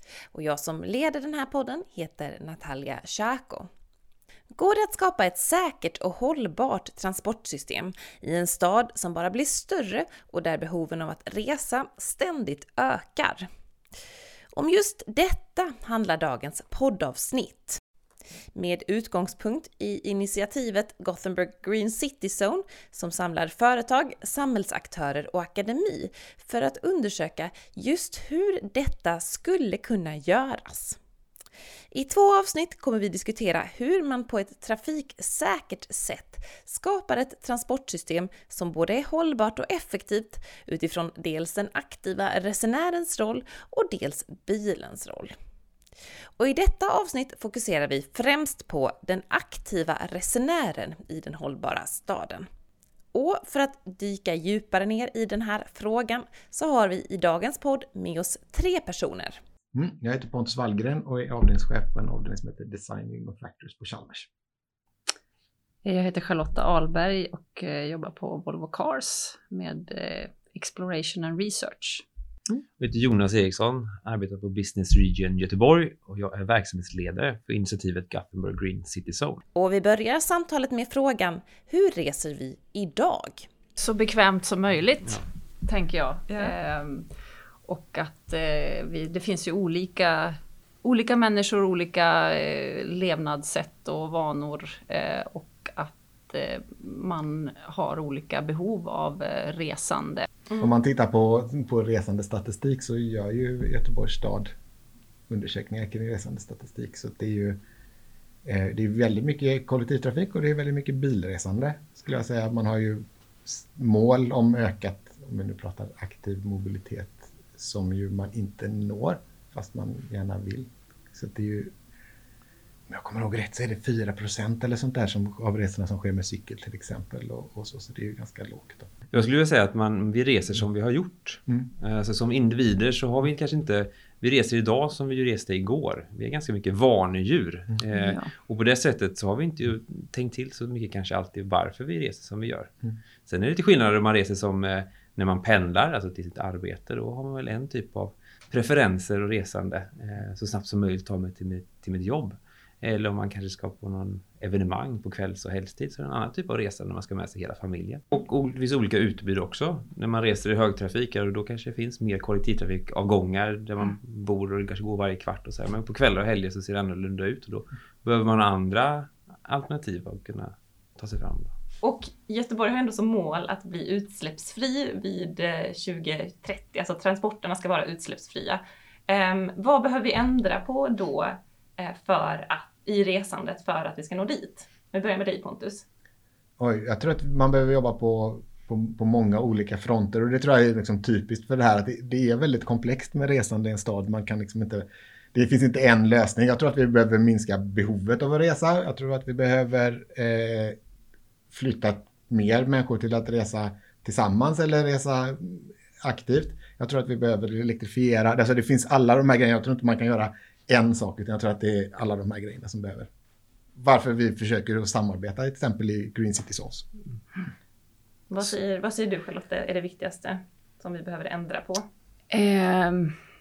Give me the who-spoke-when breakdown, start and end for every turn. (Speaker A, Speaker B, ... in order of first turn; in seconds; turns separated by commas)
Speaker A: 0.3-3.7, Speaker A: 4.5-13.5, Speaker A: 14.5-17.8, Speaker A: 18.5-31.0, Speaker A: 31.9-45.4, Speaker A: 46.4-52.5, Speaker A: 53.1-59.4, Speaker B: 59.7-64.3, Speaker C: 65.8-72.0, Speaker D: 72.8-79.4, Speaker A: 79.5-83.5, Speaker C: 83.8-87.1, Speaker C: 87.7-100.3, Speaker B: 100.6-104.5, Speaker B: 105.3-107.6, Speaker B: 108.5-121.7, Speaker B: 122.9-128.9, Speaker D: 129.1-142.7, Speaker C: 137.9-138.3, Speaker D: 143.3-171.6, Speaker E: 171.8-185.8, Speaker B: 186.6-200.8, Speaker B: 201.5-213.1, Speaker B: 213.8-216.9, Speaker E: 218.3-221.8, Speaker C: 222.3-223.2